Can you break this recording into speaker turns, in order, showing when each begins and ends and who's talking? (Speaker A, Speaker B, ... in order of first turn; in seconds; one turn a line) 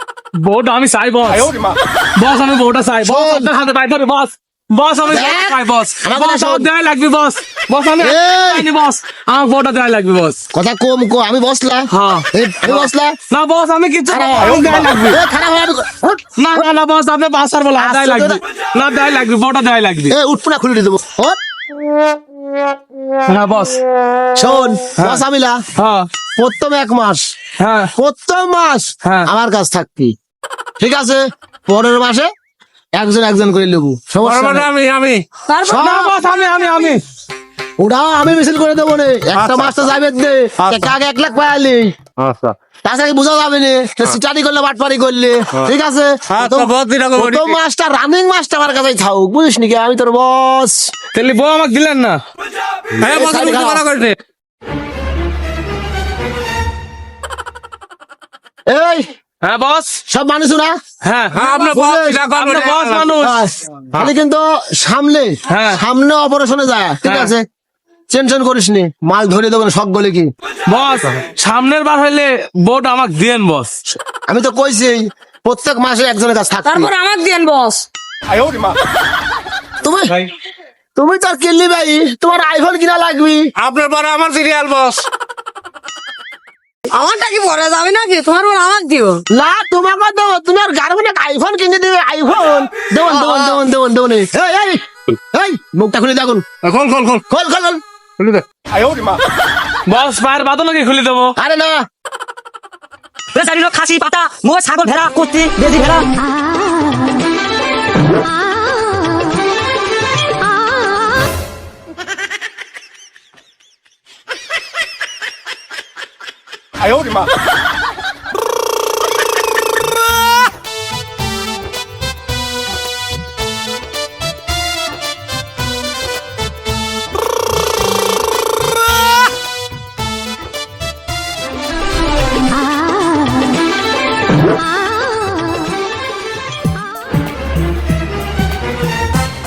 Speaker A: 0.4-10.4
Speaker B: 3.0-3.5
Speaker B: 5.0-6.7
Speaker B: 8.0-8.7
Speaker B: 10.5-13.2
Speaker A: 11.9-15.2
Speaker B: 14.1-16.6
Speaker A: 16.4-20.1
Speaker B: 17.8-18.4
Speaker B: 20.1-21.4
Speaker A: 23.3-23.8
Speaker B: 24.3-25.6
Speaker A: 25.0-25.2
Speaker A: 25.8-26.1
Speaker B: 26.4-27.2
Speaker A: 27.6-27.9
Speaker B: 27.9-30.1
Speaker B: 30.8-32.3
Speaker B: 33.0-34.7
Speaker C: 34.2-35.2
Speaker D: 35.5-36.2
Speaker A: 35.7-37.0
Speaker B: 37.8-41.9
Speaker C: 39.3-39.9
Speaker C: 40.6-40.9
Speaker C: 42.2-42.5
Speaker B: 42.8-50.9
Speaker C: 46.3-47.5
Speaker A: 51.1-52.2
Speaker C: 53.0-54.2
Speaker B: 53.0-53.8
Speaker B: 58.7-59.0
Speaker A: 59.4-60.0
Speaker B: 60.1-60.7
Speaker A: 61.0-63.4
Speaker C: 61.3-63.1
Speaker B: 61.6-62.3
Speaker B: 63.2-67.4
Speaker A: 65.5-65.8
Speaker A: 67.0-67.3
Speaker B: 68.1-70.3
Speaker A: 70.7-73.7
Speaker B: 74.3-76.9
Speaker D: 76.7-77.8
Speaker B: 79.8-80.2
Speaker B: 81.0-83.5
Speaker C: 83.6-85.0
Speaker D: 86.9-89.2
Speaker B: 89.3-94.8
Speaker B: 95.3-96.4
Speaker C: 96.6-97.2
Speaker B: 97.3-97.8
Speaker C: 98.2-98.4
Speaker A: 99.9-101.3
Speaker B: 101.4-101.8
Speaker E: 103.3-106.0